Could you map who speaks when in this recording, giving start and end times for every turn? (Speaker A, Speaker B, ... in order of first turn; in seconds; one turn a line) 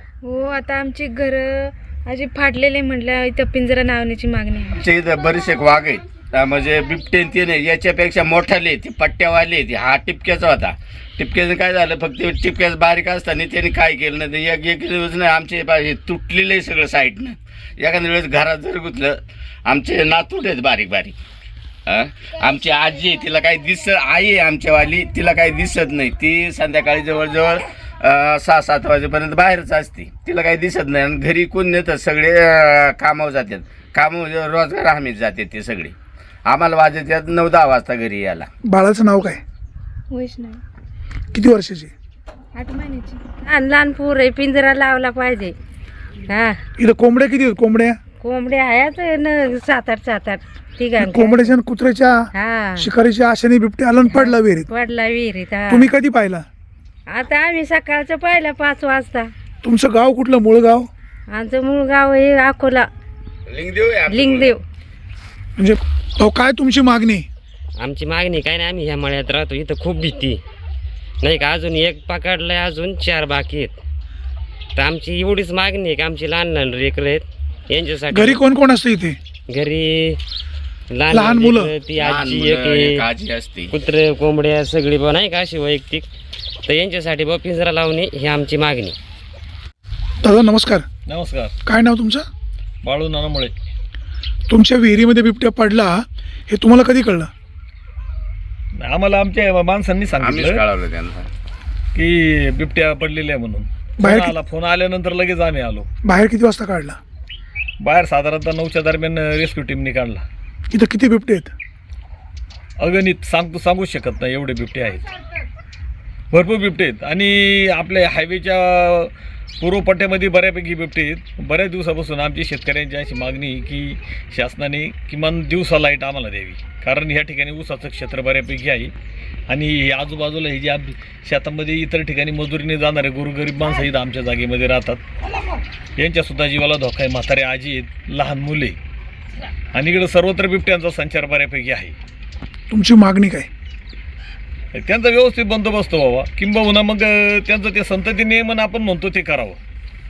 Speaker A: 0.2-4.8
Speaker B: 4.7-21.2
Speaker B: 21.9-36.0
Speaker B: 36.5-38.5
Speaker C: 38.6-39.4
Speaker A: 40.2-40.5
Speaker C: 41.3-41.9
Speaker A: 42.6-43.1
Speaker D: 43.1-45.5
Speaker D: 46.3-46.6
Speaker C: 46.8-48.0
Speaker D: 48.2-51.5
Speaker C: 51.0-52.3
Speaker D: 52.3-52.9
Speaker C: 52.8-54.7
Speaker D: 54.0-55.9
Speaker C: 55.7-56.5
Speaker D: 57.1-59.3
Speaker C: 59.6-60.9
Speaker D: 61.3-62.9
Speaker B: 63.5-64.5
Speaker D: 64.1-64.6
Speaker C: 65.6-67.3
Speaker E: 67.8-70.4
Speaker E: 71.2-73.8
Speaker E: 74.8-78.4
Speaker C: 78.1-79.2
Speaker E: 79.5-80.2
Speaker E: 80.9-83.0
Speaker C: 81.1-81.7
Speaker B: 82.0-83.7
Speaker E: 83.7-86.1
Speaker E: 86.7-89.0
Speaker C: 90.2-90.9
Speaker F: 91.1-91.5
Speaker C: 91.7-92.3
Speaker F: 92.8-93.5
Speaker C: 94.5-97.3
Speaker F: 98.8-100.6
Speaker B: 100.2-101.3
Speaker F: 102.0-105.9
Speaker C: 104.0-104.4
Speaker C: 106.0-107.0
Speaker F: 107.8-110.2
Speaker C: 110.7-111.5
Speaker F: 112.8-115.1
Speaker F: 116.3-128.9
Speaker F: 129.5-135.0
Speaker F: 136.0-138.8
Speaker F: 139.7-141.9
Speaker C: 142.7-143.5
Speaker F: 144.7-149.6